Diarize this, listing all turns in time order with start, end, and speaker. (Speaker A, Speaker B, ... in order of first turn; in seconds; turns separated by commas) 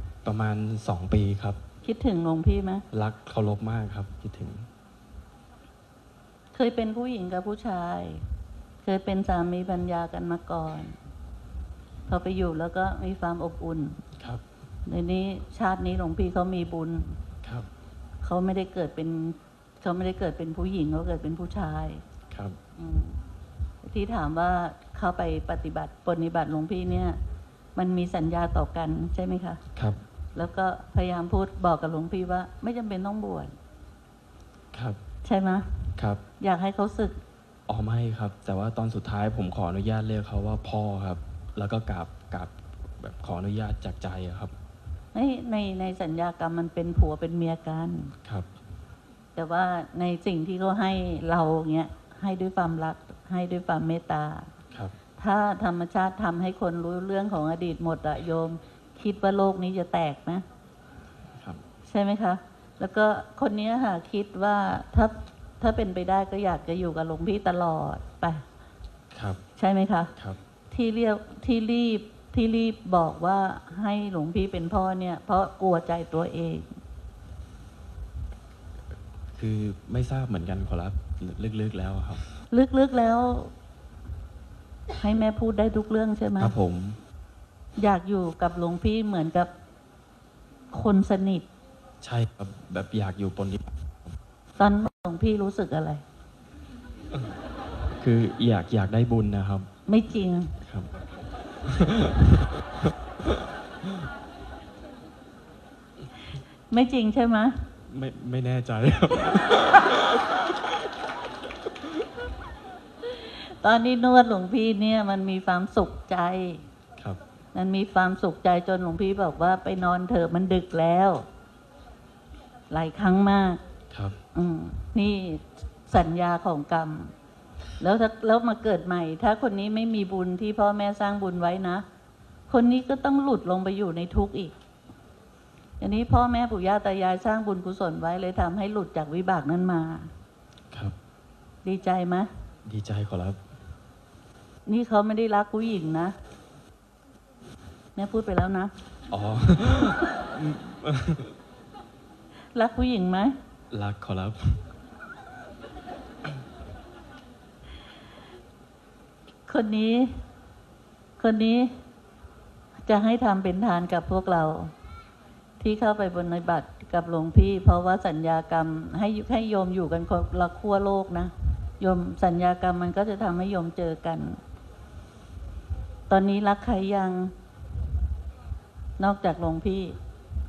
Speaker A: 0.2-1.6, Speaker B: 1.8-2.8, Speaker A: 2.9-4.7, Speaker B: 6.5-8.2, Speaker B: 8.8-10.9, Speaker B: 12.1-14.0, Speaker A: 14.2-14.4, Speaker B: 14.9-17.2, Speaker A: 17.4-17.7, Speaker B: 18.2-22.0, Speaker A: 22.3-22.6, Speaker B: 22.8-23.2, Speaker B: 23.8-27.2, Speaker B: 27.8-29.6, Speaker A: 29.8-30.0, Speaker B: 30.4-33.5, Speaker A: 34.7-35.0, Speaker B: 35.2-35.7, Speaker A: 36.0-36.2, Speaker B: 36.4-37.2, Speaker A: 37.7-44.5, Speaker B: 45.1-48.1, Speaker B: 49.4-54.5, Speaker B: 55.2-60.5, Speaker A: 61.4-61.6, Speaker B: 61.9-68.4, Speaker A: 69.1-69.4, Speaker B: 69.6-70.1, Speaker B: 70.7-76.7, Speaker A: 79.3-82.2, Speaker B: 82.5-83.5, Speaker B: 85.0-86.5, Speaker A: 86.4-87.0, Speaker B: 87.8-89.5, Speaker B: 90.7-91.5, Speaker A: 92.0-94.2, Speaker B: 94.6-96.0, Speaker A: 98.0-99.7, Speaker B: 99.9-100.5, Speaker A: 100.6-100.9, Speaker A: 101.7-103.3, Speaker B: 106.7-107.5, Speaker A: 107.9-110.6, Speaker B: 113.0-116.6, Speaker B: 117.5-121.3, Speaker B: 122.7-123.6, Speaker A: 123.9-124.2, Speaker B: 124.3-127.1, Speaker B: 127.8-131.8, Speaker B: 132.5-134.6, Speaker B: 135.8-140.1, Speaker B: 141.6-142.3, Speaker A: 142.7-143.4, Speaker B: 144.7-146.2, Speaker B: 148.0-148.7, Speaker A: 149.1-151.3, Speaker B: 152.6-153.3, Speaker A: 153.7-154.6, Speaker B: 159.5-160.2, Speaker B: 161.2-161.7, Speaker B: 162.9-164.7, Speaker B: 165.6-174.4, Speaker B: 176.1-177.3, Speaker B: 179.0-180.0